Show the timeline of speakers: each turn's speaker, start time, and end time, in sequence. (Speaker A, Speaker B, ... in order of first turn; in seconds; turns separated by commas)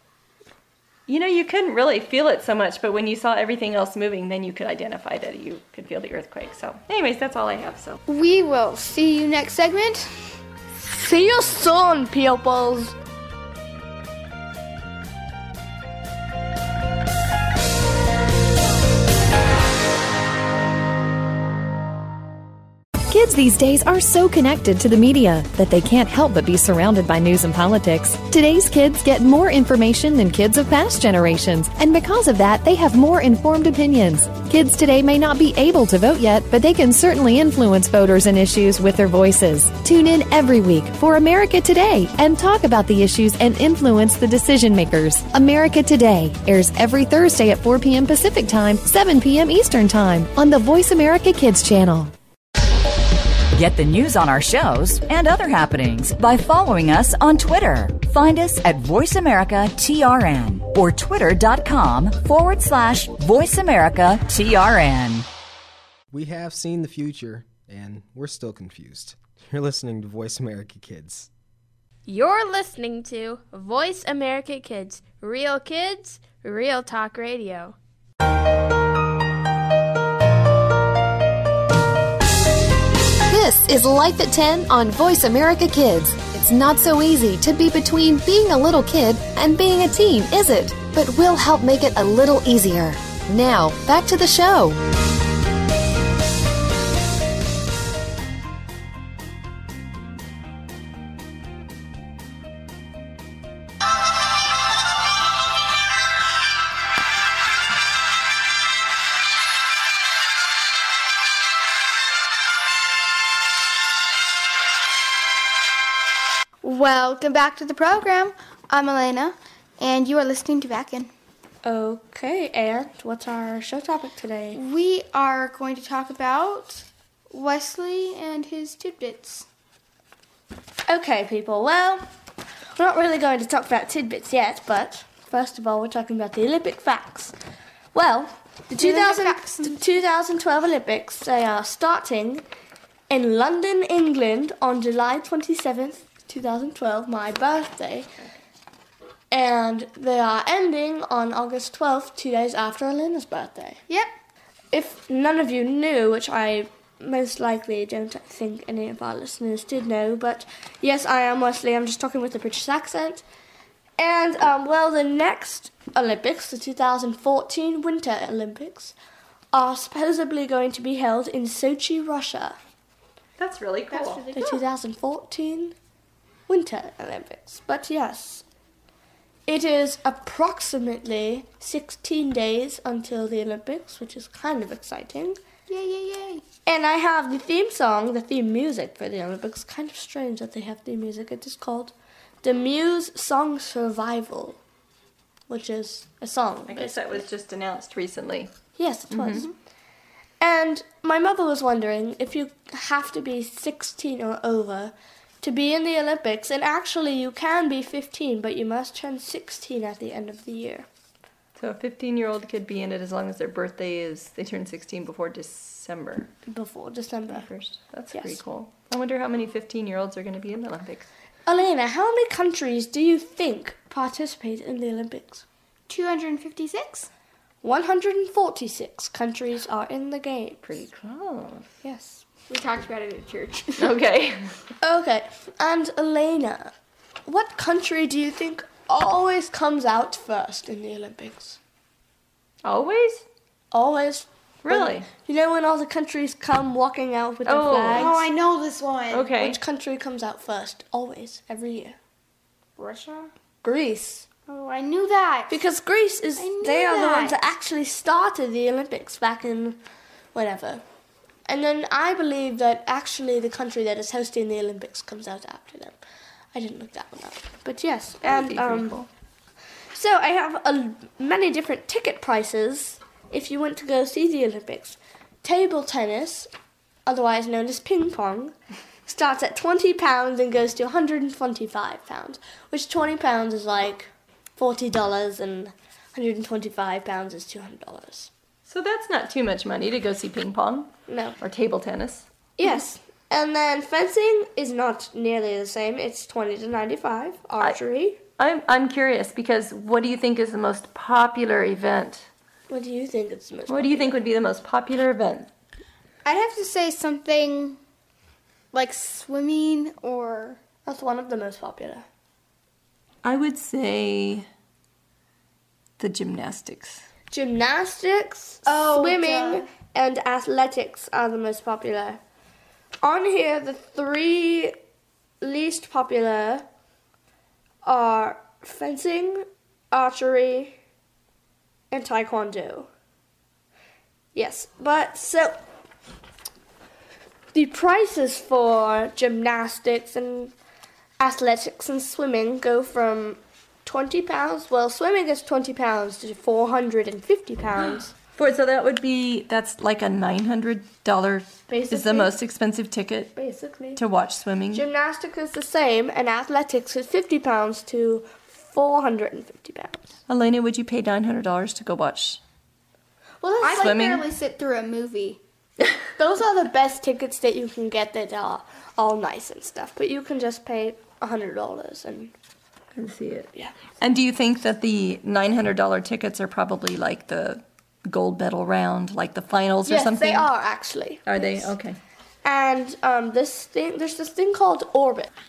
Speaker A: 1.1-8.0, Speaker B: 8.1-10.1, Speaker C: 10.9-12.9, Speaker D: 23.1-52.1, Speaker E: 53.5-65.3, Speaker F: 66.1-71.3, Speaker G: 72.1-77.8, Speaker H: 83.3-94.8, Speaker B: 116.6-121.1, Speaker C: 121.6-124.6, Speaker B: 124.5-129.5, Speaker C: 130.9-132.1, Speaker C: 132.8-137.3, Speaker C: 137.9-142.4, Speaker B: 138.8-139.8, Speaker C: 143.1-148.1, Speaker C: 149.3-153.8, Speaker C: 154.7-163.2, Speaker C: 164.0-168.9, Speaker C: 169.5-172.6, Speaker A: 173.4-174.6, Speaker B: 173.9-174.4, Speaker C: 174.3-175.8, Speaker C: 176.5-178.4, Speaker C: 179.5-185.4, Speaker B: 185.7-186.4, Speaker C: 186.7-194.6, Speaker C: 195.5-197.2, Speaker A: 196.7-198.5, Speaker C: 198.8-199.5, Speaker A: 199.1-199.5, Speaker C: 200.4-210.9, Speaker A: 211.6-216.3, Speaker C: 216.5-217.5, Speaker A: 217.3-221.1, Speaker C: 218.1-218.4, Speaker C: 221.5-225.4, Speaker B: 225.9-227.1, Speaker C: 227.6-230.6, Speaker A: 230.6-231.7, Speaker C: 231.8-232.2, Speaker B: 232.5-233.9, Speaker A: 233.8-234.6, Speaker C: 234.8-236.7, Speaker C: 237.3-241.6, Speaker A: 242.6-243.3, Speaker C: 243.7-248.1, Speaker A: 244.6-245.1, Speaker A: 247.4-248.2, Speaker B: 247.9-249.3, Speaker A: 249.1-249.6, Speaker C: 249.4-252.0, Speaker B: 252.8-253.3, Speaker C: 253.6-254.3, Speaker B: 254.5-255.6, Speaker C: 255.5-259.8, Speaker B: 256.4-257.4, Speaker C: 260.3-260.8, Speaker C: 261.5-266.0, Speaker C: 266.5-269.0, Speaker A: 268.2-269.1, Speaker C: 269.9-276.5, Speaker C: 277.1-278.5, Speaker C: 279.1-288.3, Speaker A: 288.6-292.3, Speaker C: 291.1-291.4, Speaker C: 292.6-298.2, Speaker A: 298.4-302.3, Speaker C: 302.7-304.2, Speaker A: 303.7-305.5, Speaker B: 306.2-307.8, Speaker B: 308.7-310.6, Speaker C: 310.9-312.1, Speaker A: 313.2-314.5, Speaker A: 316.0-317.0, Speaker C: 317.3-322.2, Speaker B: 318.7-319.7, Speaker C: 323.0-324.8, Speaker C: 325.4-326.7, Speaker C: 327.8-330.8, Speaker C: 331.9-332.9, Speaker C: 334.4-335.6, Speaker C: 337.5-340.5, Speaker C: 341.2-348.1, Speaker A: 348.4-353.3, Speaker C: 351.7-352.4, Speaker C: 353.4-354.0, Speaker A: 354.0-354.9, Speaker C: 354.7-360.0, Speaker A: 360.3-362.4, Speaker C: 363.4-364.0, Speaker B: 363.6-365.4, Speaker A: 363.8-364.3, Speaker C: 366.2-372.3, Speaker A: 372.9-380.5, Speaker C: 379.9-381.7, Speaker A: 381.3-382.0, Speaker C: 382.4-385.3